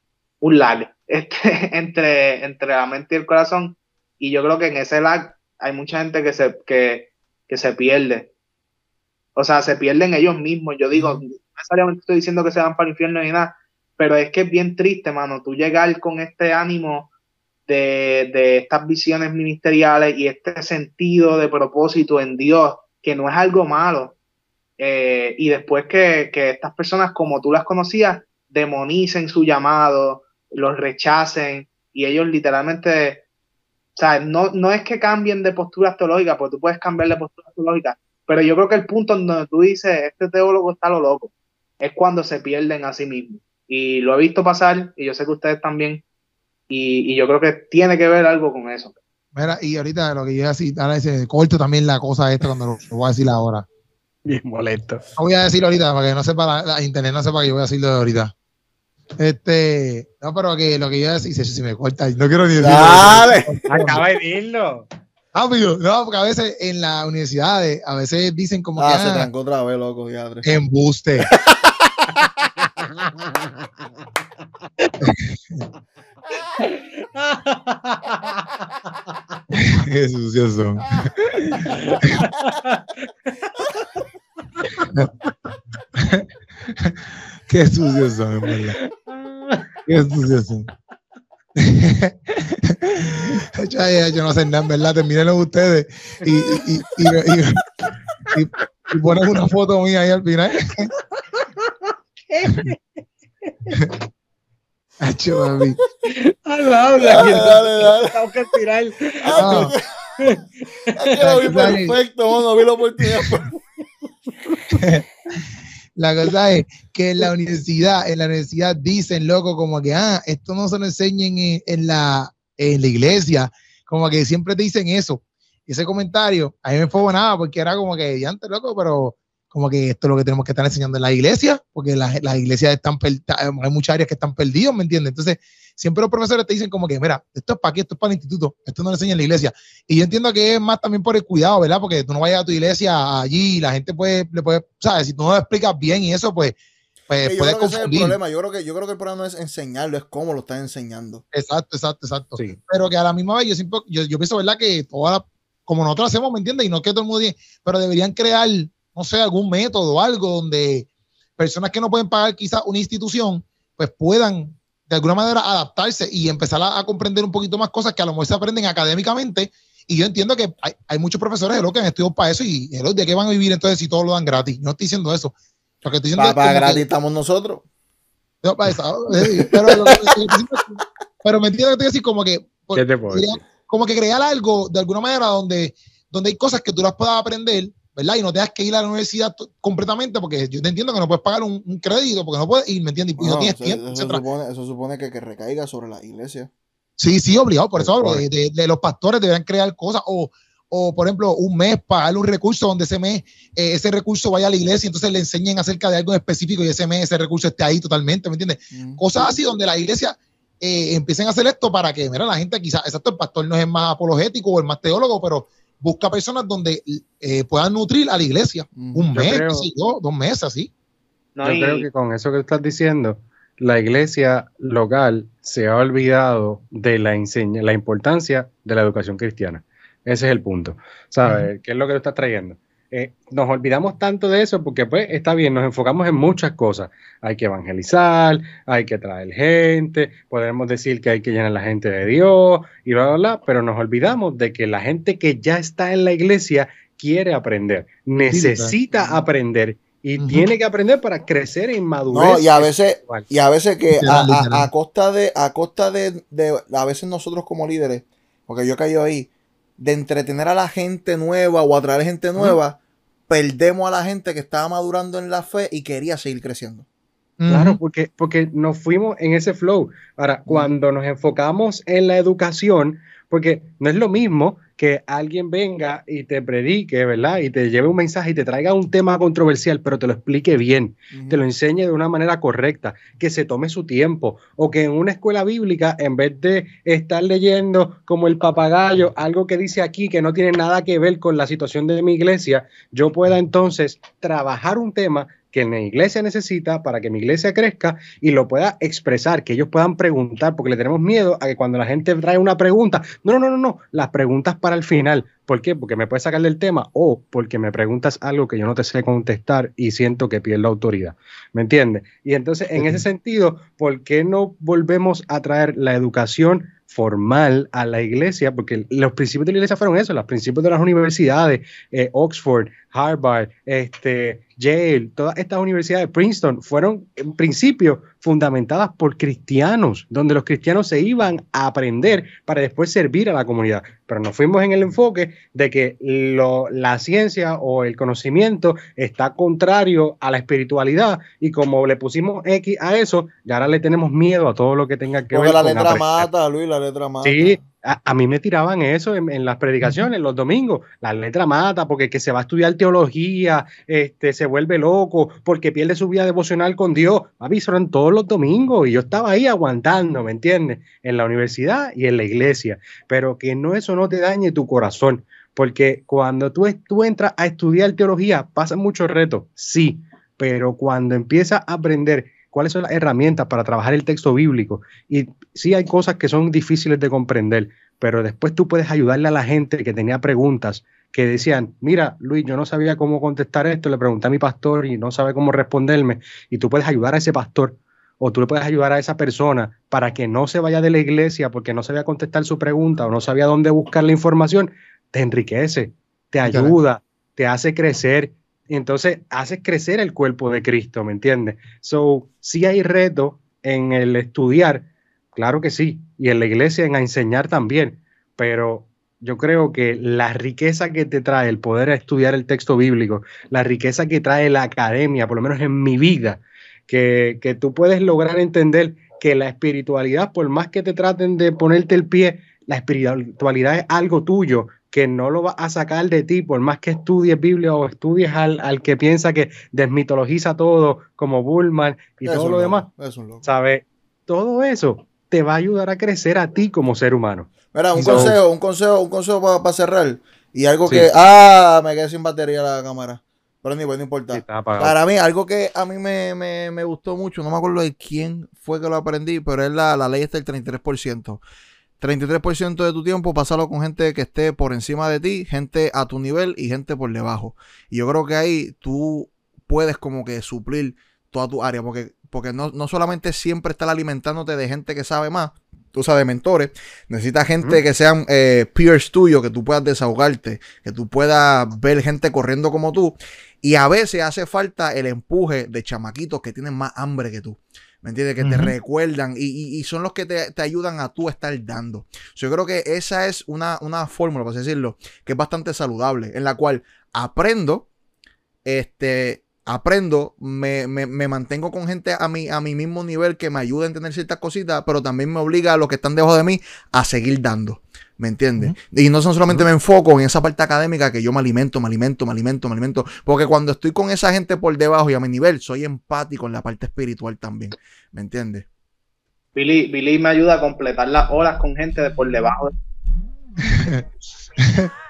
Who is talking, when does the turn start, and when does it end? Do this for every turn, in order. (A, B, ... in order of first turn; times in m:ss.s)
0:00.4-0:08.3 A
0:09.4-0:17.1 A
0:17.7-0:24.2 A
0:24.8-0:33.2 A
0:34.0-0:46.0 A
0:46.7-0:49.0 A
0:49.4-0:53.7 B
0:54.3-0:55.0 C
0:55.2-0:58.3 B
0:59.2-1:04.0 B
1:02.6-1:03.6 D
1:03.7-1:04.9 C
1:05.4-1:09.3 B
1:08.8-1:10.5 D
1:10.4-1:11.3 B
1:11.3-1:12.3 D
1:12.8-1:13.2 C
1:15.0-1:15.6 B
1:16.6-1:18.5 C
1:19.6-1:22.2 B
1:21.6-1:23.3 C
1:26.0-1:28.8 B
1:28.8-1:29.8 C
1:29.9-1:30.7 B
1:31.6-1:37.6 B
1:38.3-1:40.9 B
1:41.2-1:41.7 C
1:42.3-1:42.8 C
1:43.5-1:43.8 C
1:45.0-1:45.8 B
1:46.1-1:51.7 C
1:47.0-1:48.2 D
1:49.2-1:49.8 D
1:49.4-1:49.7 B
1:50.9-1:53.5 D
1:51.2-1:52.0 B
1:54.7-1:55.0 B
1:56.0-2:26.6 B
2:27.1-2:28.2 B
2:27.2-2:31.2 D
2:31.3-2:56.8 B
2:56.2-2:57.6 D
2:58.4-3:14.2 B
2:59.4-3:00.1 D
3:02.8-3:03.4 C
3:13.2-3:16.5 D
3:17.0-3:40.7 B
3:17.8-3:18.2 D
3:28.7-3:29.0 D
3:38.8-3:39.1 D
3:39.1-3:39.7 C
3:41.4-3:41.9 A
3:41.4-4:13.3 C
3:51.2-3:51.5 B
4:08.3-4:08.8 B
4:08.9-4:09.2 D
4:10.2-4:10.4 B
4:12.1-4:26.8 D
4:14.0-4:14.7 B
4:27.4-4:27.8 B
4:27.5-5:46.3 C
4:41.1-4:41.4 D
5:12.8-5:13.0 B
5:45.3-5:47.6 D
5:47.2-7:12.9 C
6:36.4-6:36.8 B
7:12.2-7:13.4 D
7:13.4-7:18.3 C
7:17.7-7:31.4 D
7:17.9-7:18.4 B
7:24.3-7:25.0 C
7:32.0-8:07.9 D
7:58.4-7:58.7 B
8:08.6-8:28.7 D
8:29.6-8:32.7 A
8:33.6-8:34.0 B
8:34.6-8:34.9 B